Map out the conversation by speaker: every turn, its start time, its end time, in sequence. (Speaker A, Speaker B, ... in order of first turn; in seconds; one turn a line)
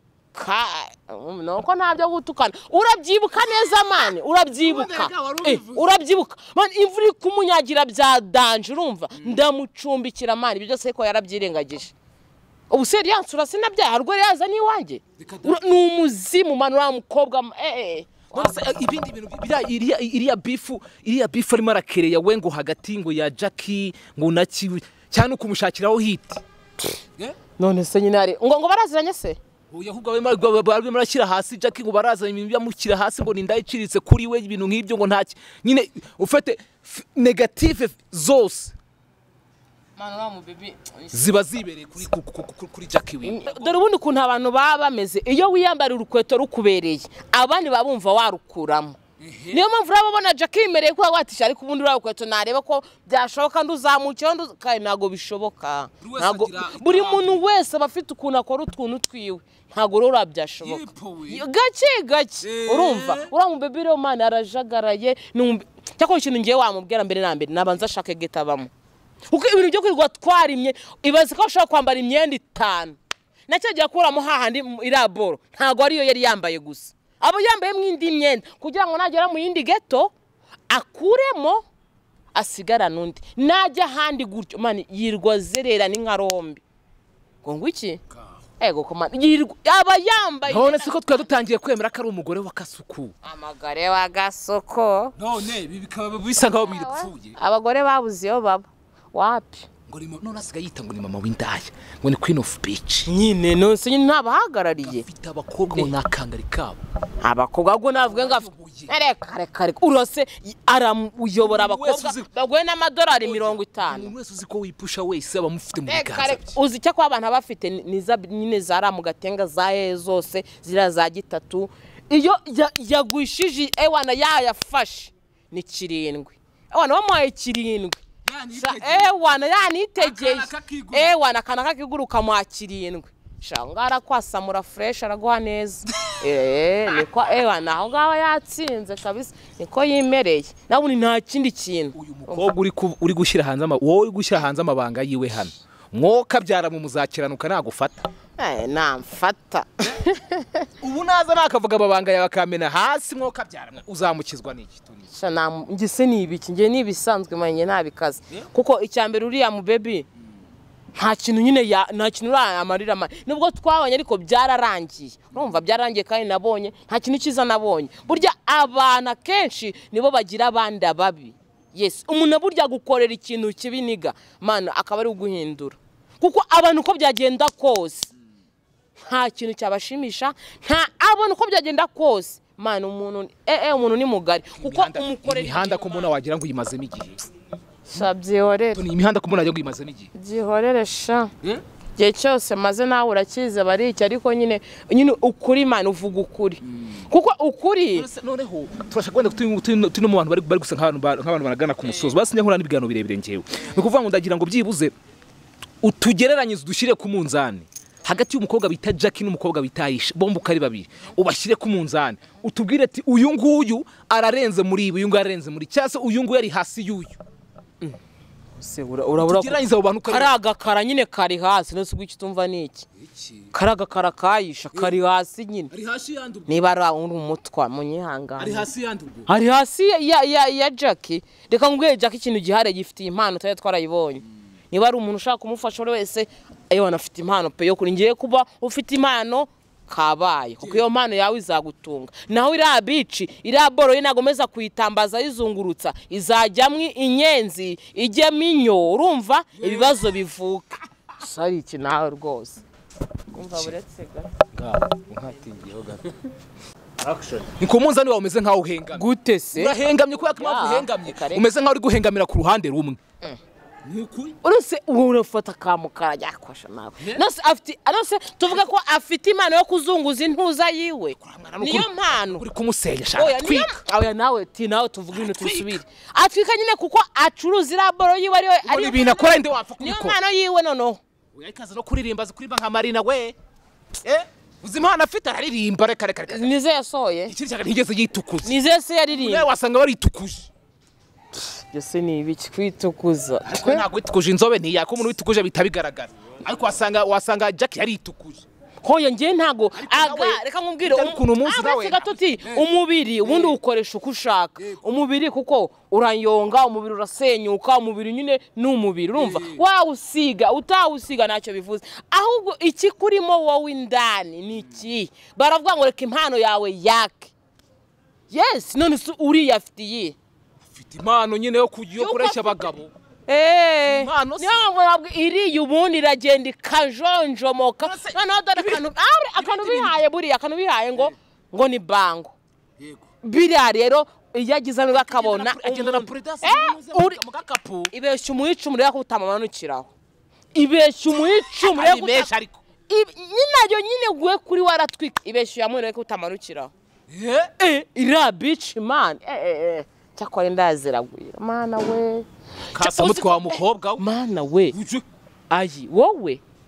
Speaker A: 0.3-11.9
Speaker B: 4.5-5.9
Speaker B: 9.1-9.4
Speaker A: 12.7-18.6
Speaker B: 15.2-15.6
Speaker B: 18.3-26.4
Speaker A: 27.6-29.4
Speaker B: 29.7-38.8
Speaker A: 40.0-41.4
Speaker B: 41.1-43.7
Speaker A: 43.2-49.0
Speaker B: 49.2-49.6
Speaker A: 49.5-68.7
Speaker B: 56.0-57.4
Speaker B: 60.6-61.4
Speaker B: 62.4-63.3
Speaker A: 69.3-80.1
Speaker A: 80.7-81.6
Speaker A: 82.3-86.6
Speaker A: 87.4-88.0
Speaker A: 88.6-91.4
Speaker B: 90.5-93.1
Speaker A: 93.2-95.1
Speaker B: 95.2-97.3
Speaker A: 96.5-99.7
Speaker B: 99.9-103.1
Speaker A: 103.1-105.0
Speaker B: 104.8-106.8
Speaker A: 107.2-114.1
Speaker B: 108.0-108.9
Speaker B: 111.4-112.3
Speaker B: 113.2-116.5
Speaker A: 115.9-128.0
Speaker B: 128.2-129.1
Speaker A: 128.5-142.5
Speaker B: 130.0-131.1
Speaker B: 141.9-148.1
Speaker A: 148.4-150.7
Speaker B: 150.8-155.0
Speaker A: 155.1-160.1
Speaker A: 160.9-178.1
Speaker A: 179.0-186.1
Speaker B: 184.6-187.2
Speaker A: 187.9-188.8
Speaker B: 188.7-190.1
Speaker A: 190.1-191.3
Speaker A: 192.0-198.1
Speaker B: 197.9-204.9
Speaker B: 205.8-217.2
Speaker A: 218.6-222.8
Speaker B: 219.2-220.3
Speaker B: 223.0-223.5
Speaker A: 223.5-225.7
Speaker B: 225.7-226.6
Speaker A: 226.5-228.7
Speaker B: 228.4-229.3
Speaker A: 229.3-252.6
Speaker B: 249.6-250.0
Speaker A: 253.3-254.3
Speaker B: 254.5-256.2
Speaker B: 257.0-263.0
Speaker A: 258.9-259.8
Speaker A: 260.4-261.5
Speaker B: 263.8-264.4
Speaker A: 264.4-272.4
Speaker B: 271.2-273.8
Speaker A: 273.1-281.0
Speaker B: 275.1-275.8
Speaker B: 278.6-280.2
Speaker B: 281.3-283.4
Speaker B: 284.0-286.5
Speaker A: 286.3-287.3
Speaker B: 287.3-288.5
Speaker A: 288.4-289.5
Speaker B: 289.1-290.5
Speaker A: 291.3-293.8
Speaker B: 293.4-298.5
Speaker A: 298.8-317.3
Speaker B: 299.7-302.6
Speaker B: 303.2-303.6
Speaker B: 309.1-309.6
Speaker A: 318.3-320.1
Speaker B: 320.8-322.9
Speaker A: 322.0-322.7
Speaker A: 323.3-332.3
Speaker B: 323.9-324.6
Speaker B: 327.8-328.8
Speaker B: 329.4-330.0
Speaker B: 332.8-333.1
Speaker A: 333.2-337.2
Speaker B: 334.9-337.9
Speaker A: 337.9-339.9
Speaker A: 340.5-342.3
Speaker B: 341.1-342.6
Speaker A: 342.9-346.7
Speaker B: 347.1-347.5
Speaker A: 347.6-354.8
Speaker B: 352.7-354.0
Speaker B: 354.7-355.0
Speaker A: 355.5-356.4